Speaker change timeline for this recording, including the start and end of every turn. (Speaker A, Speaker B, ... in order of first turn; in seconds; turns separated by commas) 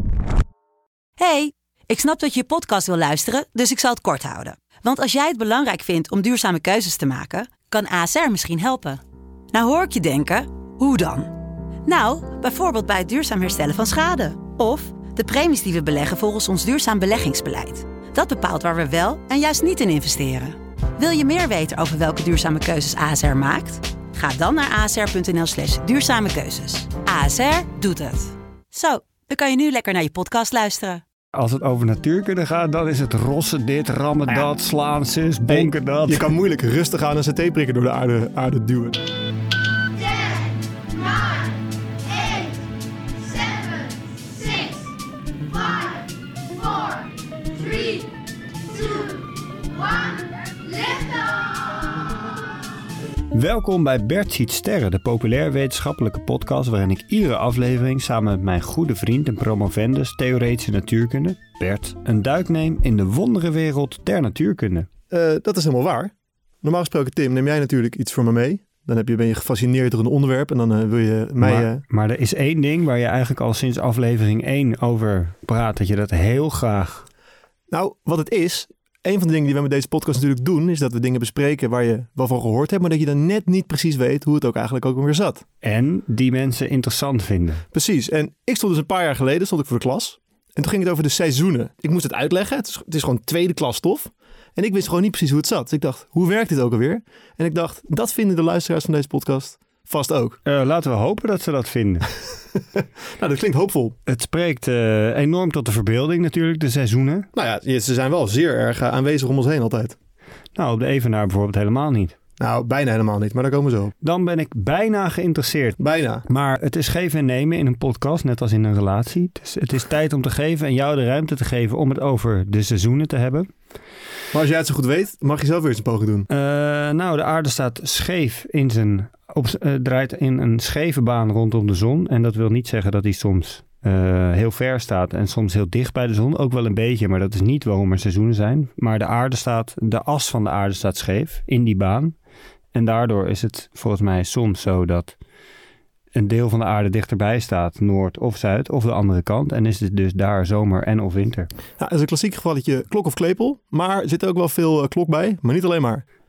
Speaker A: 1.2-9.0, Speaker A: 9.5-11.3, Speaker A: 11.9-31.0, Speaker B: 31.3-36.3, Speaker C: 35.5-39.0, Speaker A: 42.2-42.5, Speaker A: 43.4-43.9, Speaker A: 44.4-44.7, Speaker A: 47.7-48.0, Speaker A: 50.7-51.2, Speaker B: 53.3-64.9, Speaker C: 65.1-66.1, Speaker C: 66.6-71.8, Speaker B: 71.4-77.1, Speaker C: 77.7-85.4, Speaker B: 85.6-87.7, Speaker C: 87.7-100.4, Speaker B: 100.5-102.1, Speaker C: 103.2-104.0, Speaker B: 104.1-107.3, Speaker C: 107.3-110.0, Speaker B: 110.5-112.2, Speaker C: 112.4-113.9, Speaker B: 114.0-123.5, Speaker C: 115.8-116.2, Speaker C: 124.3-126.3, Speaker B: 126.3-142.2, Speaker B: 142.7-145.2, Speaker B: 146.1-151.5, Speaker C: 151.8-156.0